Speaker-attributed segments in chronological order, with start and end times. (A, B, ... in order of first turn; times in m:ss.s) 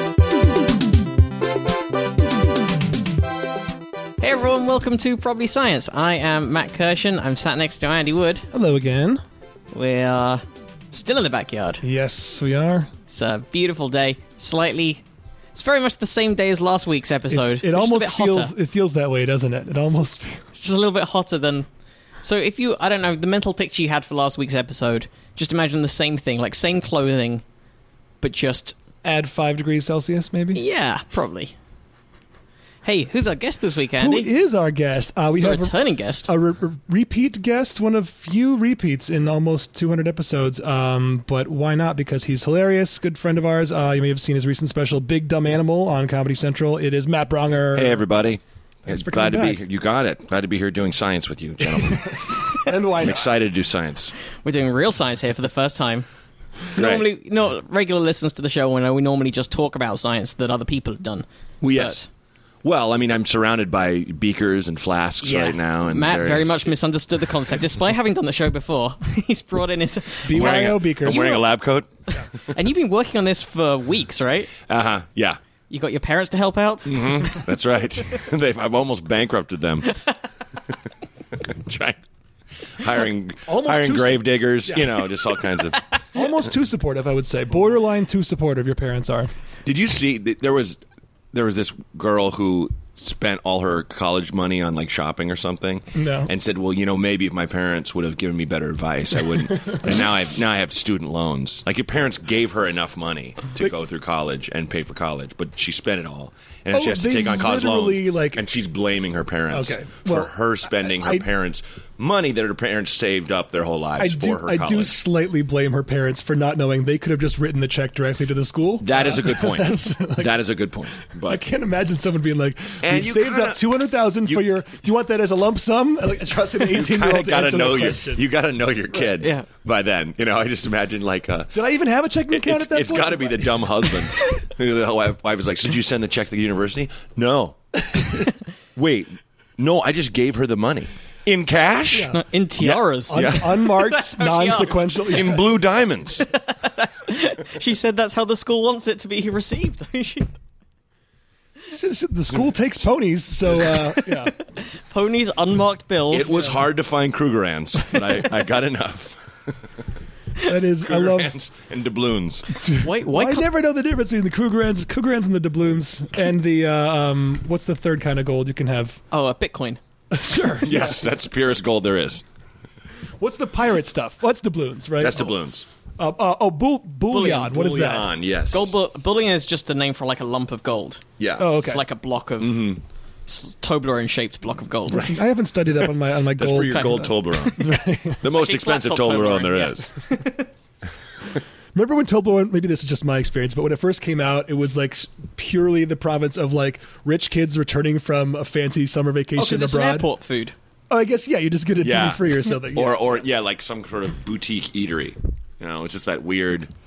0:04.2-0:08.5 A
0:08.5-0:09.2 B
0:09.7-0:11.8 A
0:11.8-0:12.9 B
0:13.1-0:15.0 A
0:15.5-0:18.5 A
0:17.3-0:20.4 B
0:20.5-0:21.7 A
0:22.2-0:27.4 A
0:28.2-0:28.8 A
0:29.0-0:30.6 B
0:30.5-0:31.6 A
0:32.8-0:34.3 A
0:34.0-0:35.8 B
0:35.3-0:36.3 A
0:36.3-0:48.0 B
0:47.7-0:54.2 C
0:48.9-0:49.6 B
0:51.6-0:53.4 B
0:54.4-0:56.1 A
0:56.7-1:02.1 A
0:56.8-0:57.1 C
1:01.6-1:02.0 C
1:02.6-1:06.8 C
1:05.2-1:11.6 A
1:10.2-1:11.4 B
1:10.3-1:11.9 C
1:12.1-1:14.5 A
1:14.6-1:15.4 C
1:15.7-1:17.0 A
1:16.9-1:20.1 C
1:21.3-1:22.0 C
1:22.6-1:26.0 C
1:23.5-1:25.0 B
1:26.1-1:29.3 B
1:29.6-1:30.8 C
1:31.3-1:55.0 C
1:35.9-1:36.3 B
1:46.7-1:48.4 B
1:49.5-1:51.2 B
1:54.0-2:00.3 B
1:58.8-2:01.4 C
2:01.1-2:08.3 B
2:02.8-2:03.6 C
2:06.6-2:11.6 C
2:09.2-2:09.5 A
2:11.5-2:13.9 B
2:12.3-2:23.7 C
2:21.9-2:22.2 B
2:22.1-2:25.4 A
2:23.1-2:25.5 B
2:25.1-2:26.3 C
2:26.2-2:30.3 A
2:31.7-2:34.3 B
2:33.8-2:36.6 A
2:36.1-2:39.7 C
2:40.4-2:41.3 B
2:40.7-2:42.7 C
2:42.5-2:49.0 B
2:42.8-2:43.5 A
2:49.1-2:49.8 A
2:50.1-2:51.1 B
2:50.6-2:52.2 C
2:53.2-2:55.4 B
2:55.0-2:55.7 C
2:56.0-2:58.1 B
2:57.1-2:57.7 A
2:57.5-2:58.8 C
2:58.5-3:02.7 A
3:01.2-3:01.6 C
3:01.4-3:01.8 B
3:02.4-3:02.8 C
3:03.3-3:05.2 A
3:04.9-3:08.2 B
3:06.4-3:09.9 C
3:06.7-3:10.6 A
3:11.8-3:20.1 B
3:19.4-3:20.6 A
3:20.9-3:23.0 B
3:21.8-3:26.7 C